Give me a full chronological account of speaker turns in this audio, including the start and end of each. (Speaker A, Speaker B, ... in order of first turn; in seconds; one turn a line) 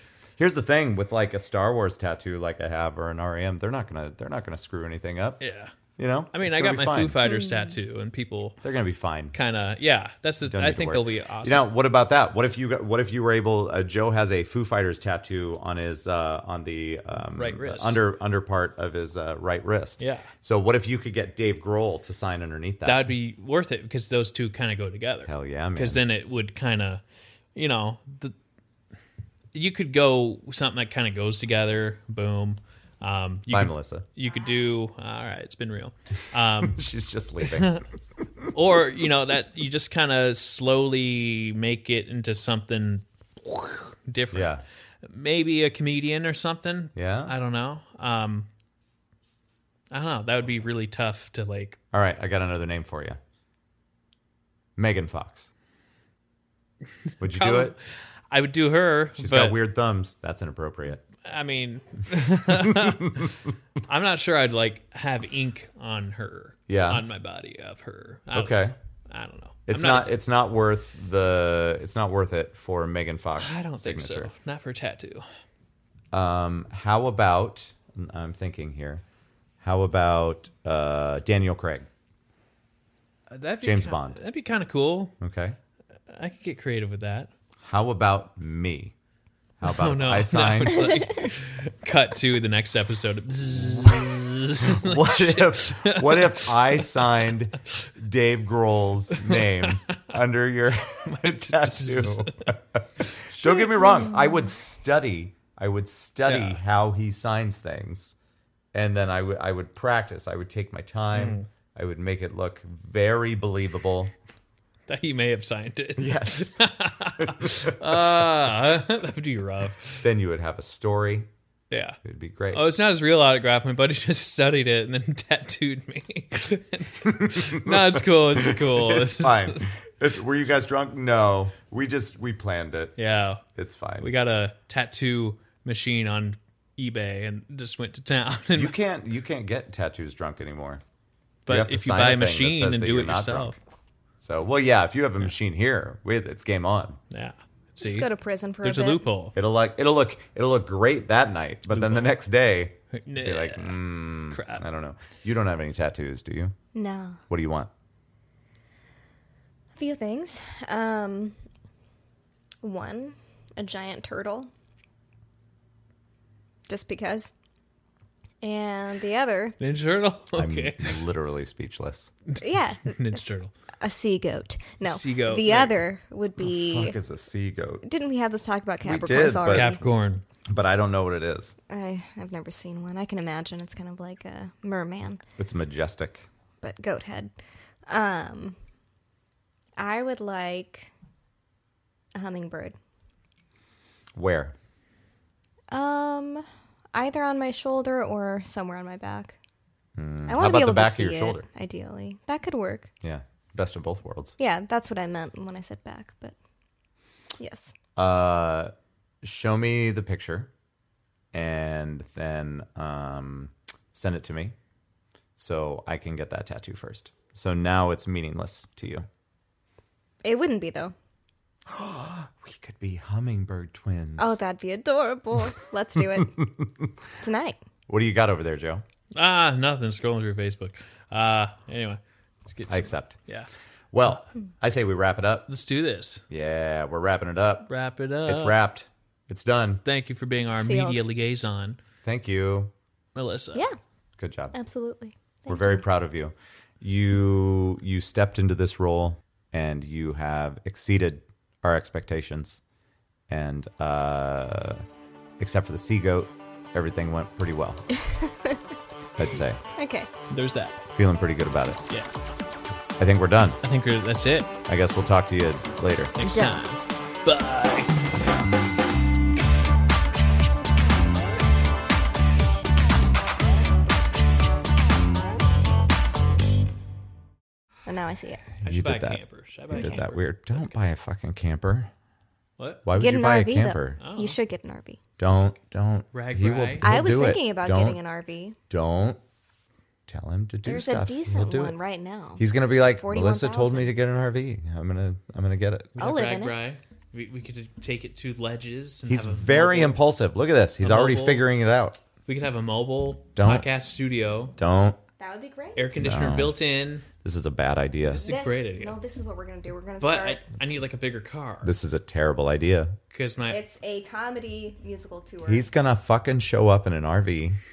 Speaker A: 0.4-5.4
Speaker B: 5.4-5.7
Speaker A: 6.0-7.2
Speaker B: 6.3-8.6
Speaker C: 7.2-7.8
Speaker A: 8.6-9.3
Speaker B: 9.3-11.7
Speaker A: 10.4-23.1
Speaker B: 17.3-18.0
Speaker B: 20.0-20.3
Speaker B: 22.9-27.0
Speaker A: 25.2-26.0
Speaker B: 27.5-28.3
Speaker B: 29.5-36.8
Speaker A: 33.5-34.0
Speaker A: 36.7-37.8
Speaker B: 37.4-37.8
Speaker B: 38.5-48.5
Speaker A: 44.3-44.6
Speaker A: 46.9-47.3
Speaker B: 49.9-51.8
Speaker A: 51.9-53.2
Speaker A: 54.8-55.5
Speaker A: 57.2-57.7
Speaker B: 57.2-57.8
Speaker B: 58.3-59.6
Speaker A: 59.2-61.0
Speaker B: 61.2-70.2
Speaker A: 62.7-63.2
Speaker A: 66.7-67.0
Speaker A: 68.3-68.8
Speaker A: 69.7-74.3
Speaker B: 73.4-75.2
Speaker A: 76.1-79.0
Speaker A: 79.6-81.9
Speaker B: 83.3-85.1
Speaker A: 83.6-84.2
Speaker A: 85.2-85.6
Speaker B: 86.1-87.3
Speaker A: 87.6-88.9
Speaker A: 89.6-91.0
Speaker B: 89.6-96.8
Speaker A: 94.6-108.1
Speaker B: 99.1-100.1
Speaker B: 100.9-104.0
Speaker C: 103.9-104.3
Speaker B: 106.3-106.6
Speaker A: 108.7-114.1
Speaker B: 111.1-111.5
Speaker B: 114.9-120.0
Speaker A: 116.0-116.5
Speaker A: 117.2-117.7
Speaker A: 120.0-121.3
Speaker B: 121.7-122.0
Speaker A: 122.0-122.6
Speaker B: 122.5-129.6
Speaker A: 127.0-132.9
Speaker B: 133.0-133.4
Speaker A: 133.5-134.1
Speaker B: 134.0-138.8
Speaker A: 138.5-140.8
Speaker B: 141.4-143.6
Speaker A: 141.5-143.6
Speaker A: 144.2-147.0
Speaker B: 147.1-148.1
Speaker C: 147.8-149.1
Speaker B: 148.6-149.3
Speaker A: 149.3-156.5
Speaker B: 151.7-152.2
Speaker B: 152.9-154.6
Speaker C: 156.7-157.2
Speaker A: 157.3-157.7
Speaker C: 159.8-161.4
Speaker C: 162.6-164.5
Speaker C: 166.7-167.3
Speaker C: 168.4-169.6
Speaker B: 169.6-171.0
Speaker A: 170.3-172.1
Speaker B: 172.3-173.5
Speaker C: 172.4-173.2
Speaker C: 173.8-177.0
Speaker B: 174.8-175.8
Speaker A: 176.4-177.8
Speaker C: 177.8-179.8
Speaker A: 178.8-179.7
Speaker B: 179.5-180.2
Speaker A: 180.5-181.6
Speaker C: 181.7-185.2
Speaker A: 185.4-186.3
Speaker C: 186.6-187.3
Speaker C: 187.9-188.6
Speaker C: 189.8-190.9
Speaker C: 192.1-192.8
Speaker A: 194.1-194.5
Speaker C: 195.7-199.4
Speaker A: 200.0-201.5
Speaker C: 200.3-202.9
Speaker A: 203.0-204.3
Speaker C: 204.4-206.3
Speaker C: 207.4-207.7
Speaker A: 207.9-210.5
Speaker A: 211.3-214.5
Speaker A: 215.4-219.1
Speaker C: 220.2-220.9
Speaker A: 221.7-224.4
Speaker C: 224.2-226.4
Speaker A: 226.4-226.9
Speaker C: 227.2-227.6
Speaker A: 227.9-228.8
Speaker B: 229.1-232.0
Speaker B: 232.5-233.5
Speaker A: 232.7-233.2
Speaker A: 233.9-235.5
Speaker B: 235.5-236.2
Speaker A: 236.3-237.7
Speaker B: 237.7-238.6
Speaker A: 238.2-239.8
Speaker B: 239.8-241.8
Speaker C: 240.5-241.0
Speaker A: 242.0-242.7
Speaker B: 243.1-243.6
Speaker A: 244.2-244.5
Speaker C: 244.5-245.8
Speaker A: 245.5-252.6
Speaker A: 253.3-254.8
Speaker A: 255.4-257.8
Speaker C: 257.9-258.6
Speaker A: 259.2-259.6
Speaker C: 259.7-260.1
Speaker B: 260.3-260.8
Speaker A: 260.9-261.8
Speaker A: 263.0-263.6
Speaker B: 263.6-264.5
Speaker A: 264.7-266.1
Speaker B: 266.1-267.9
Speaker C: 266.2-266.6
Speaker C: 277.9-278.5
Speaker B: 278.6-280.6
Speaker A: 278.6-281.9
Speaker C: 279.7-280.0
Speaker B: 282.6-282.8
Speaker A: 282.8-284.0
Speaker C: 282.9-285.0
Speaker B: 284.0-284.4
Speaker A: 285.2-288.0
Speaker B: 286.1-286.8
Speaker C: 286.8-288.6
Speaker A: 288.7-289.2
Speaker A: 290.1-291.8
Speaker C: 290.6-293.9
Speaker A: 292.4-295.9
Speaker B: 295.9-300.0
Speaker C: 296.0-296.6
Speaker A: 299.1-302.0
Speaker B: 300.8-301.5
Speaker B: 302.2-304.5
Speaker A: 303.4-303.7
Speaker A: 304.6-305.0
Speaker C: 305.2-306.0
Speaker B: 305.8-307.0
Speaker A: 306.0-306.6
Speaker A: 307.2-308.2
Speaker C: 308.1-310.5
Speaker B: 308.1-308.9
Speaker B: 310.0-311.7
Speaker A: 311.6-312.9
Speaker B: 313.1-313.6
Speaker C: 313.5-315.7
Speaker A: 315.4-317.6